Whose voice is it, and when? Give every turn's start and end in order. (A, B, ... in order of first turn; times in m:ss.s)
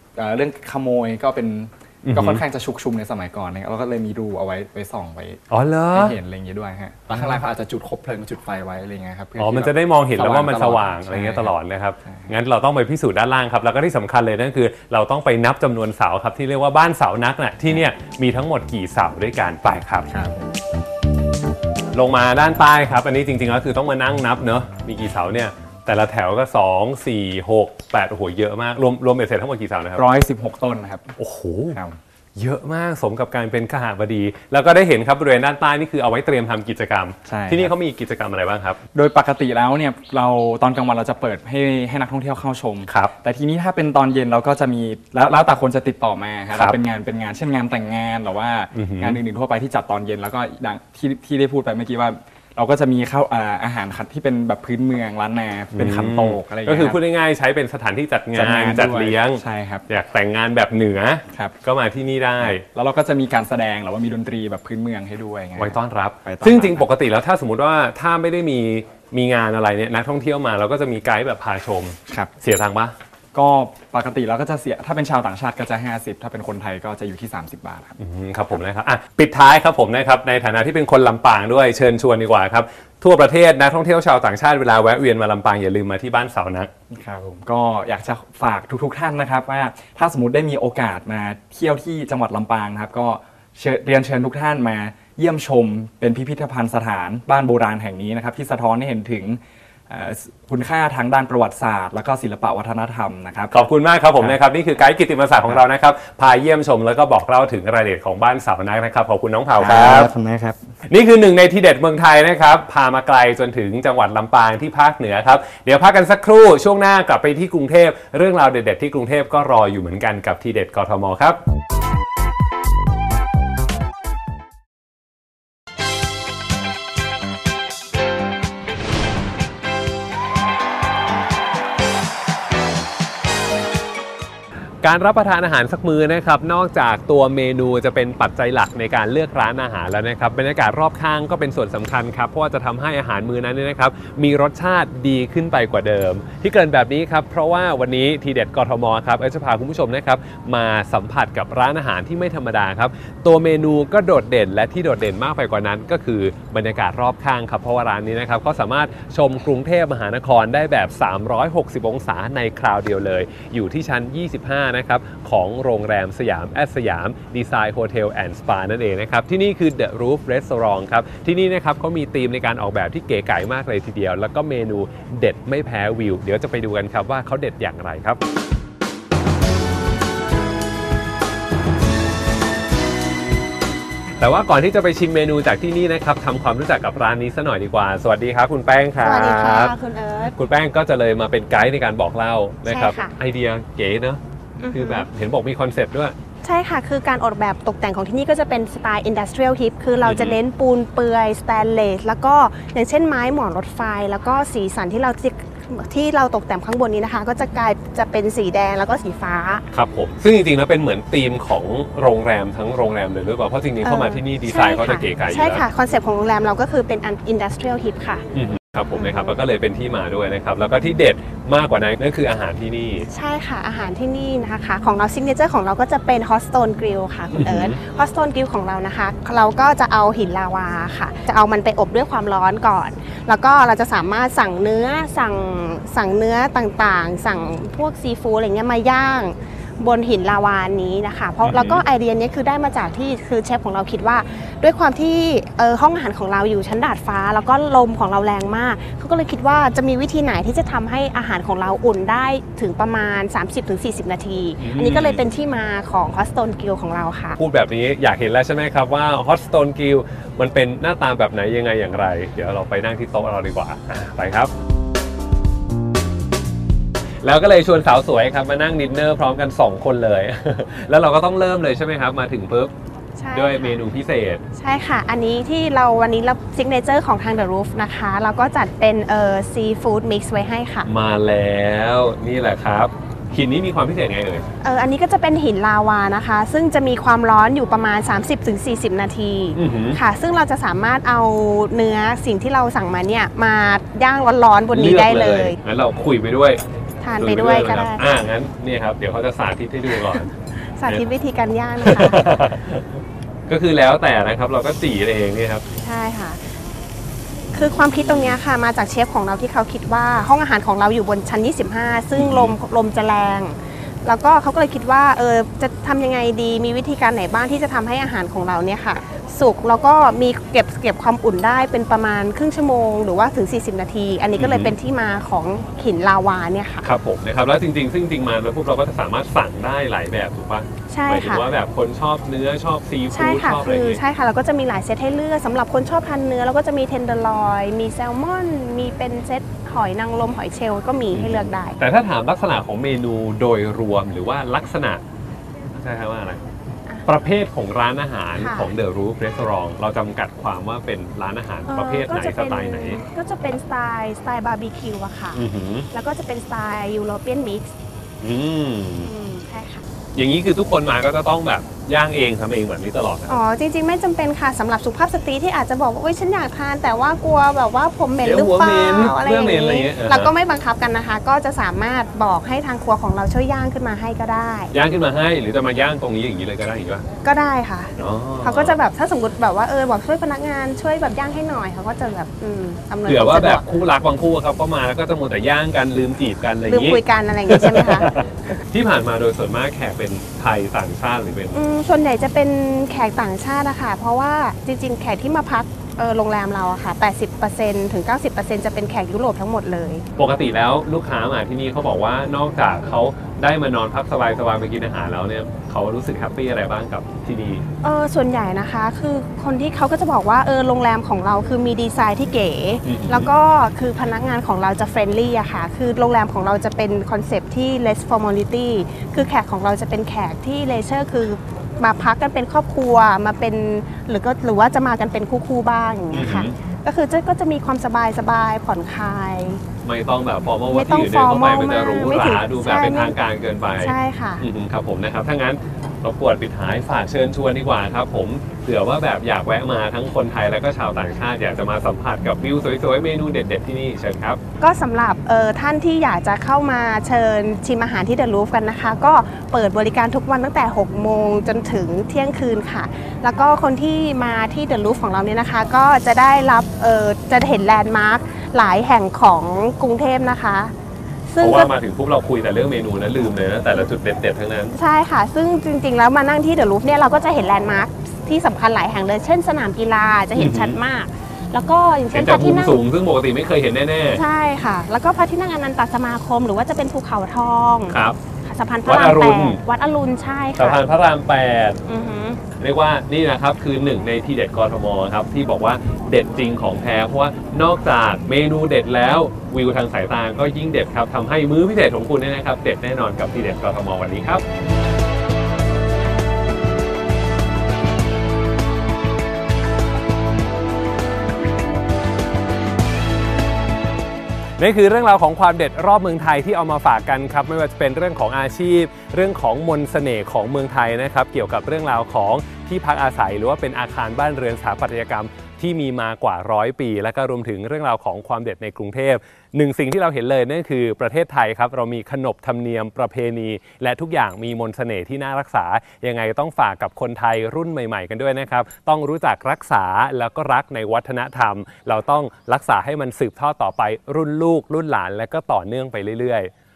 0:00.2-0:05.4 A
0:02.0-0:02.4 B
0:05.5-0:06.2 B
0:05.9-0:12.3 A
0:07.1-0:07.5 B
0:09.4-0:20.1 B
0:20.0-0:20.5 A
0:21.9-0:30.0 B
0:29.9-0:31.2 A
0:31.2-0:31.8 B
0:31.7-0:32.0 A
0:32.4-0:38.8 B
0:37.3-0:37.7 A
0:38.9-0:57.0 A
0:42.8-0:43.1 B
0:46.5-0:46.8 B
0:48.7-0:49.2 B
0:55.7-1:02.6 B
0:58.3-0:59.8 A
1:01.3-1:01.5 A
1:02.4-1:06.9 A
1:05.6-1:12.9 B
1:13.3-1:18.0 A
1:18.0-1:26.7 B
1:26.9-1:44.4 A
1:43.5-1:50.1 B
1:49.5-1:50.7 A
1:50.9-2:01.4 B
2:14.8-2:58.2 B
3:04.2-3:14.2 B
3:09.0-3:10.3 C
3:12.6-3:13.1 C
3:14.6-3:15.1 C
3:14.7-3:16.1 B
3:16.4-3:29.6 C
3:20.0-3:20.4 B
3:29.7-3:35.6 B
3:33.8-3:38.2 C
3:38.3-3:43.1 B
3:38.9-3:39.4 C
3:43.1-4:17.4 C
3:47.3-3:47.8 B
4:01.4-4:01.8 B
4:14.6-4:15.2 B
4:17.4-4:24.5 B
4:27.2-4:32.7 B
4:33.2-4:33.8 C
4:33.3-4:34.4 B
4:34.5-4:40.9 C
4:40.8-4:44.4 B
4:44.6-4:55.6 C
4:49.5-4:50.0 B
4:54.7-4:56.6 B
4:57.0-4:58.0 C
4:57.1-5:00.3 B
5:00.0-5:02.4 C
5:01.8-5:05.6 B
5:05.8-5:06.5 C
5:07.5-5:26.8 C
5:07.5-5:08.4 B
5:12.1-5:12.5 B
5:24.4-5:24.7 B
5:26.8-5:34.0 B
5:30.9-5:31.5 C
5:33.1-5:41.7 C
5:41.1-5:45.0 B
5:45.7-5:46.4 B
5:47.0-5:53.0 B
5:48.3-5:48.7 C
5:51.6-5:57.7 C
5:55.3-5:55.9 B
5:58.2-5:59.1 B
5:59.0-5:59.8 C
6:00.1-6:03.4 B
6:03.3-6:14.7 C
6:08.2-6:10.3 B
6:14.7-6:17.0 B
6:17.2-6:23.6 C
6:18.0-6:18.8 B
6:23.0-6:31.6 B
6:26.6-6:28.1 C
6:31.5-6:40.0 C
6:40.2-6:47.6 B
6:47.8-7:09.6 C
6:52.8-6:53.3 B
7:06.1-7:06.6 B
7:09.8-7:24.4 B
7:10.7-7:13.1 C
7:13.7-7:14.4 C
7:24.6-7:40.7 C
7:41.3-7:41.7 C
7:41.4-7:44.7 B
7:44.7-7:52.8 C
7:50.3-7:50.8 B
7:52.1-7:54.2 B
7:54.1-8:00.8 C
7:57.9-7:58.2 B
7:58.8-7:59.6 B
8:00.6-8:01.8 B
8:01.8-8:02.4 C
8:02.6-8:14.4 B
8:24.6-8:56.5 B